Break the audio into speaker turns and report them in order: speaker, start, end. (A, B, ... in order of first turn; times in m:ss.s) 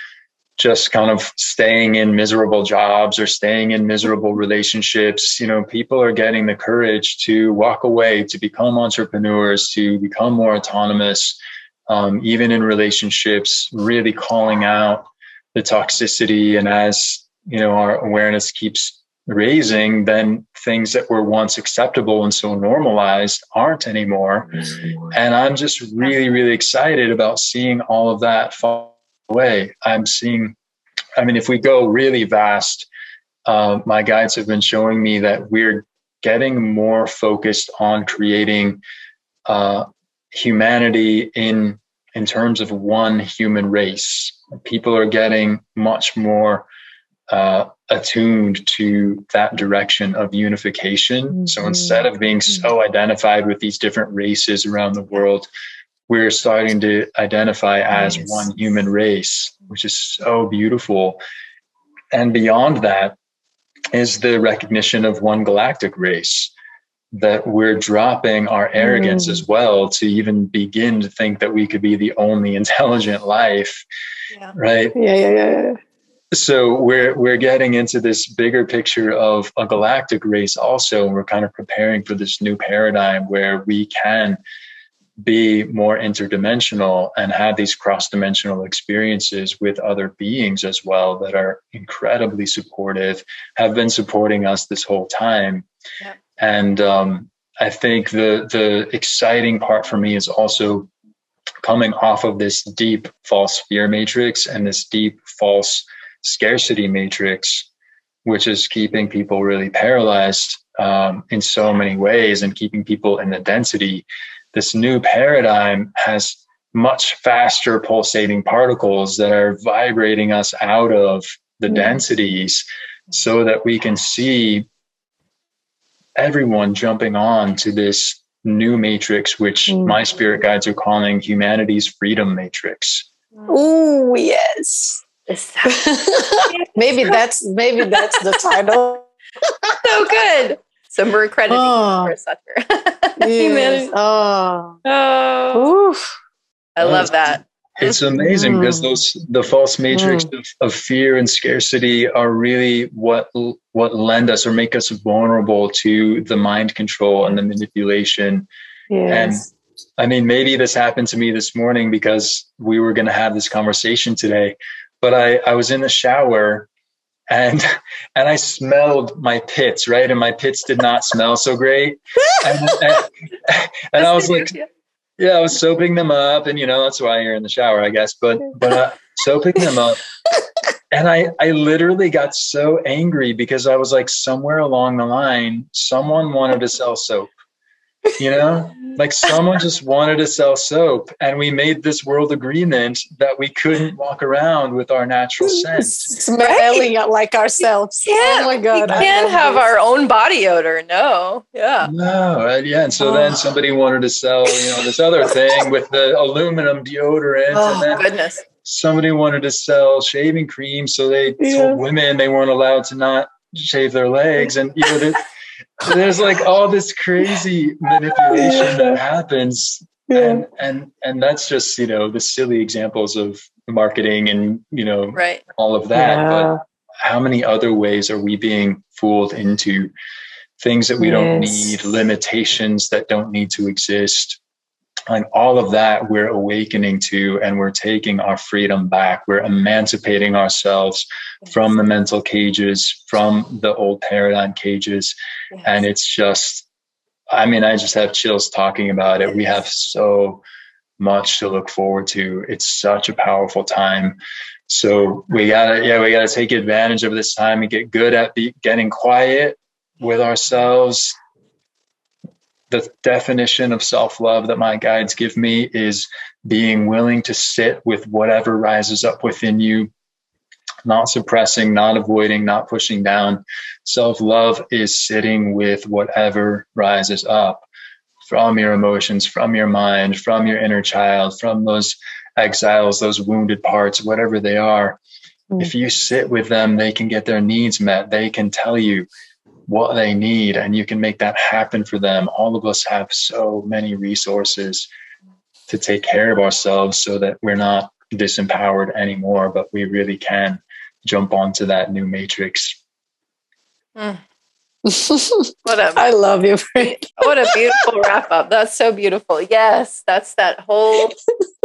0:00.6-0:11.4 A
0:11.9-0:30.5 A
0:31.2-0:32.9 A
0:33.4-0:38.8 A
0:39.4-0:46.7 A
0:47.3-0:55.5 A
0:51.4-0:52.0 B
0:56.1-1:01.2 A
1:02.1-1:03.2 A
1:03.9-1:06.5 A
1:07.1-1:13.8 A
1:08.8-1:09.4 B
1:14.5-1:15.0 A
1:14.9-1:15.8 B
1:16.3-1:24.4 A
1:25.2-1:35.6 A
1:36.4-1:40.9 A
1:41.6-1:47.7 A
1:48.2-2:04.6 A
2:06.2-2:13.1 A
2:09.7-2:10.0 B
2:13.5-2:15.0 B
2:15.3-2:15.8 C
2:15.6-2:19.8 B
2:19.8-2:23.9 C
2:21.5-2:22.1 B
2:23.2-2:24.8 B
2:24.8-2:25.7 C
2:25.5-2:26.1 B
2:26.8-2:28.0 C
2:26.8-2:38.5 A
2:28.2-2:28.9 B
2:29.9-2:30.3 B
2:38.9-2:39.5 B
2:39.1-2:46.7 A
2:47.3-2:54.5 A
2:54.0-2:54.7 C
2:55.2-3:00.0 A
3:00.9-3:07.3 A
3:08.2-3:16.1 A
3:15.4-3:19.6 B
3:16.4-3:16.9 C
3:18.0-3:21.9 C
3:18.9-3:19.3 A
3:21.8-3:28.0 A
3:23.0-3:23.4 B
3:27.5-3:28.4 C
3:28.6-3:35.2 A
3:31.4-3:31.8 B
3:35.8-3:49.9 A
3:38.3-3:39.0 B
3:40.1-3:40.4 B
3:45.1-3:45.4 C
3:45.9-3:46.6 B
3:50.6-3:54.4 A
3:51.0-3:51.8 B
3:55.1-4:06.6 A
4:07.3-4:10.4 A
4:11.0-4:14.2 A
4:14.7-4:21.1 A
4:22.7-4:29.9 A
4:30.8-4:37.6 A
4:38.3-4:45.0 A
4:45.6-4:49.1 A
4:49.7-4:54.9 A
4:55.7-5:02.8 A
5:04.0-5:04.2 C
5:04.8-5:07.7 B
5:05.6-5:06.0 C
5:06.8-5:11.2 C